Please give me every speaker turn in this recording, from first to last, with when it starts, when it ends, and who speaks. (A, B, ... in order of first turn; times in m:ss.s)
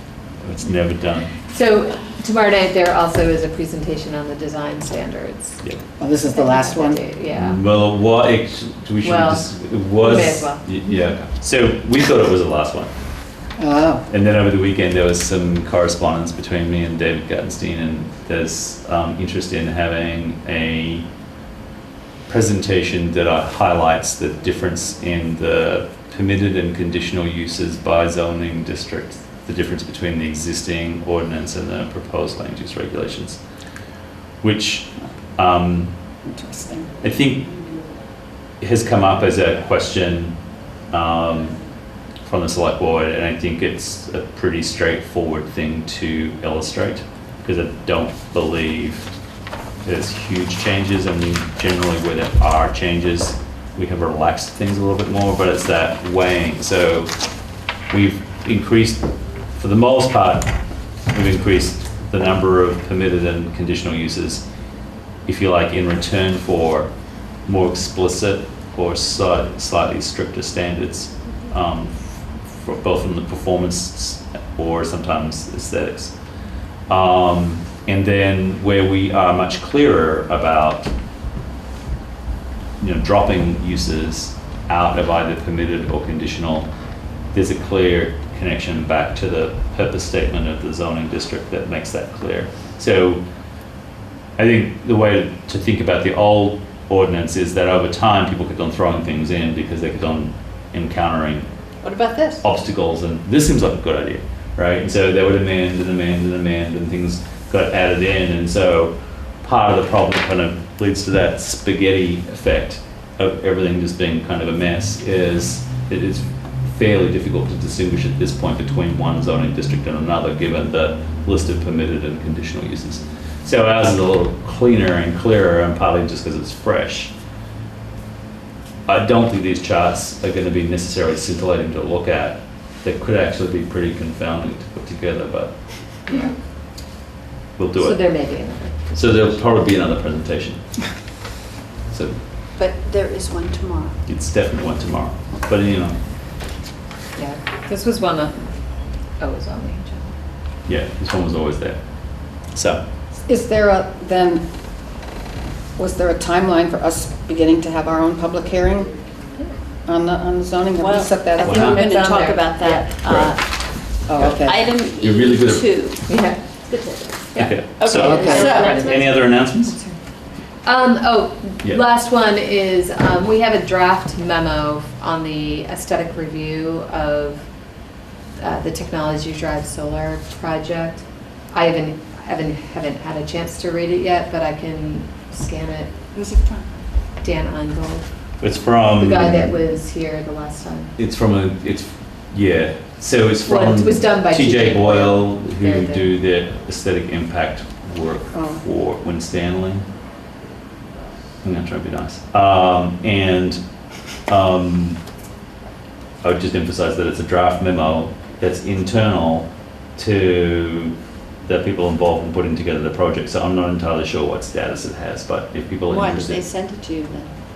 0:00.4-0:01.3 A
0:01.5-0:05.6 B
0:06.0-0:07.0 C
0:06.3-0:07.6 B
0:07.3-0:12.9 A
0:09.0-0:10.6 B
0:13.6-0:14.1 C
0:14.1-0:21.0 A
0:22.3-0:33.4 A
0:34.4-0:35.9 A
0:36.2-0:36.9 C
0:37.0-0:37.4 A
0:38.6-0:40.4 A
0:40.9-0:41.6 A
0:42.2-0:49.1 A
0:49.8-0:57.1 A
0:57.9-1:00.5 A
1:01.1-1:04.4 A
1:05.2-1:06.9 A
1:07.5-1:16.1 A
1:16.9-1:20.9 A
1:22.8-1:26.7 A
1:27.3-1:33.2 A
1:34.4-1:41.5 A
1:41.8-1:42.4 D
1:42.4-2:07.1 A
2:08.9-2:15.5 A
2:16.1-2:16.3 B
2:17.6-2:18.0 A
2:17.8-2:19.3 B
2:18.9-2:20.6 A
2:21.9-2:22.2 A
2:22.6-2:24.0 D
2:24.1-2:26.0 A
2:27.2-2:28.5 B
2:29.2-2:30.1 B
2:30.6-2:31.8 A
2:32.5-2:32.8 A
2:33.3-2:34.4 C
2:35.8-2:38.9 C
2:39.8-2:41.9 C
2:40.8-2:43.6 D
2:41.4-2:42.8 B
2:41.4-2:41.8 A
2:43.0-2:43.3 A
2:44.1-2:44.6 C
2:44.2-2:45.7 A
2:44.4-2:46.0 D
2:46.1-2:50.0 B
2:47.4-2:49.8 A
2:47.7-2:49.0 D
2:47.9-2:48.5 C
2:50.6-2:57.4 B
2:58.4-3:05.9 B
3:06.1-3:06.7 D
3:07.2-3:08.0 B
3:08.4-3:09.5 A
3:09.0-3:10.9 B
3:11.0-3:19.8 A
3:13.4-3:16.1 B
3:18.3-3:18.6 C
3:21.4-3:23.6 A
3:24.3-3:25.0 A
3:26.2-3:30.9 A
3:31.4-3:36.4 A
3:35.9-3:37.3 D